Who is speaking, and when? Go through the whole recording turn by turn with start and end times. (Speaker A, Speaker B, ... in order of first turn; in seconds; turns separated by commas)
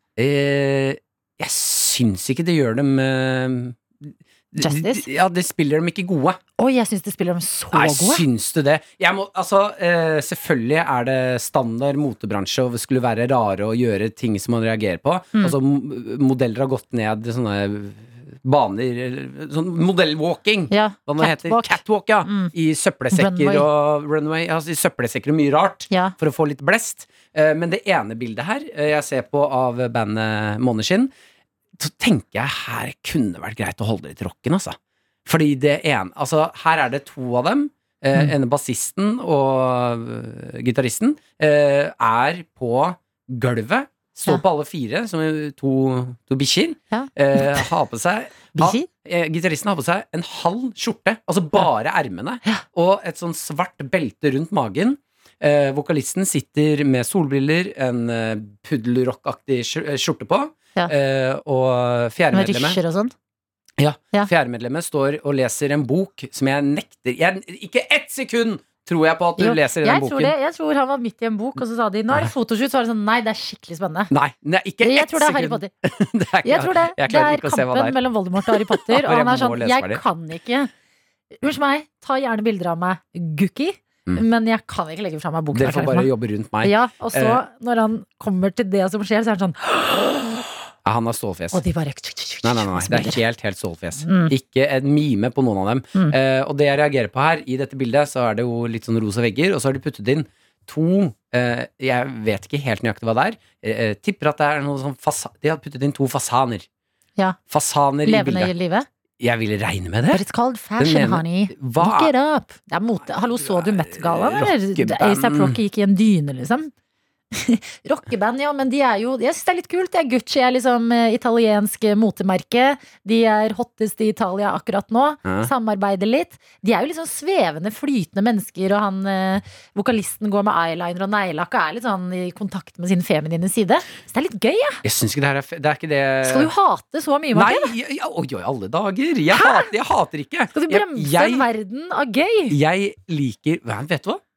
Speaker A: 0.1-6.4, Speaker B: 4.6-5.0, Speaker B: 6.6-8.2, Speaker A: 7.7-31.1, Speaker B: 20.7-22.5, Speaker B: 23.1-23.6, Speaker B: 25.9-26.1, Speaker A: 31.8-62.8, Speaker B: 46.9-47.7, Speaker B: 48.5-48.9, Speaker B: 62.3-63.1, Speaker A: 63.8-70.3, Speaker B: 69.4-74.1, Speaker A: 74.1-80.0, Speaker B: 74.8-75.7, Speaker B: 76.4-80.7, Speaker B: 81.4-86.1, Speaker A: 85.5-87.4, Speaker B: 86.6-90.5, Speaker A: 90.8-91.6, Speaker B: 91.5-93.2, Speaker A: 92.4-106.7, Speaker B: 94.0-94.3, Speaker A: 107.5-108.5, Speaker B: 108.0-108.9, Speaker A: 109.2-110.2, Speaker B: 110.1-116.7, Speaker A: 110.8-112.1, Speaker A: 113.3-115.6, Speaker B: 117.3-134.8, Speaker A: 125.2-125.5, Speaker A: 134.8-136.5, Speaker B: 136.2-137.7, Speaker A: 137.3-141.4, Speaker B: 139.3-139.7, Speaker B: 140.5-142.6, Speaker A: 142.5-144.2